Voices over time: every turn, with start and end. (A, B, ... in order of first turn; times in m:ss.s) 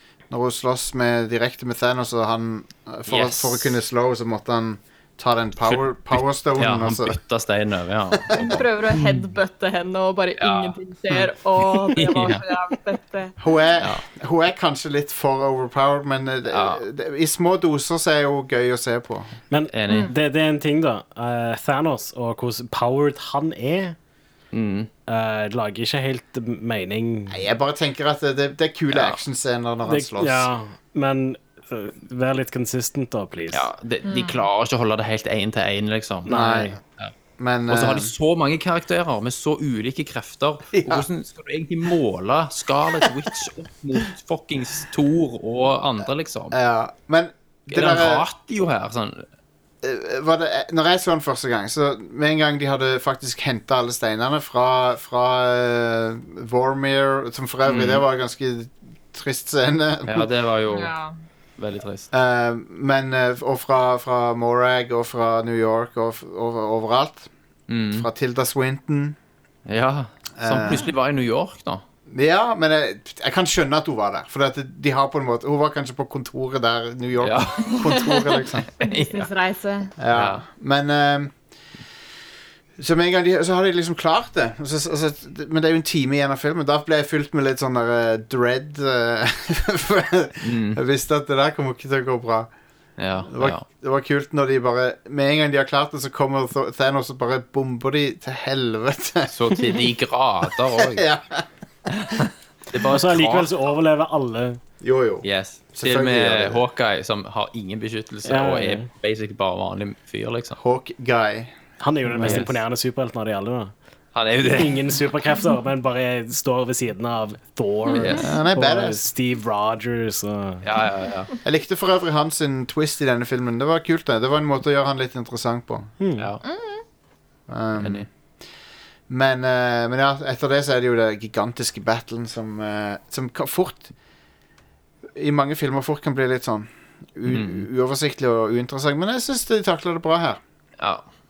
0:00.3-0:07.2 A
0:03.1-0:03.8 B
0:05.6-0:09.2 B
0:08.1-0:08.6 A
0:08.3-0:13.4 C
0:10.4-0:12.4 B
0:13.4-0:19.3 A
0:16.5-0:16.8 B
0:19.5-0:24.0 D
0:19.7-0:20.1 B
0:19.9-0:20.1 C
0:24.5-0:24.9 B
0:25.1-0:27.4 D
0:27.3-0:30.5 A
0:28.9-0:29.2 B
0:29.8-0:33.7 D
0:33.5-0:36.3 B
0:34.0-0:34.5 C
0:36.2-0:36.8 D
0:36.3-0:36.8 A
0:37.4-0:38.1 A
0:37.7-0:46.6 B
0:40.7-0:41.1 A
0:46.5-0:48.2 A
0:47.7-0:49.2 B
0:49.8-1:00.3 A
0:57.6-0:58.0 B
1:00.0-1:00.9 B
1:00.7-1:01.2 C
1:01.6-1:02.1 B
1:02.1-1:07.3 A
1:07.7-1:08.1 B
1:07.9-1:09.2 A
1:09.7-1:11.8 B
1:10.4-1:10.8 A
1:12.1-1:18.7 A
1:17.2-1:17.8 B
1:17.7-1:19.9 C
1:18.8-1:19.3 B
1:20.0-1:21.3 A
1:20.1-1:20.4 B
1:22.8-1:32.5 A
1:30.4-1:30.8 B
1:33.0-1:33.6 B
1:33.3-1:39.8 A
1:39.3-1:41.0 B
1:40.8-1:41.4 A
1:41.9-1:43.5 B
1:42.8-1:44.6 D
1:44.8-1:46.6 A
1:45.2-1:50.6 B
1:48.2-1:48.8 D
1:50.6-1:51.5 A
1:51.8-1:53.7 D
1:52.1-1:52.6 B
1:52.2-1:52.4 A
1:54.1-1:54.9 B
1:54.5-2:00.6 D
1:57.9-1:58.2 C
1:58.0-1:58.3 B
1:58.2-1:59.0 A
2:00.6-2:01.3 B
2:01.4-2:05.9 A
2:06.0-2:06.3 D
2:06.2-2:06.4 B
2:06.4-2:06.8 C
2:07.5-2:08.1 A
2:07.8-2:08.1 B
2:09.1-2:13.9 A
2:15.2-2:20.4 A
2:17.3-2:17.6 B
2:20.8-2:21.0 B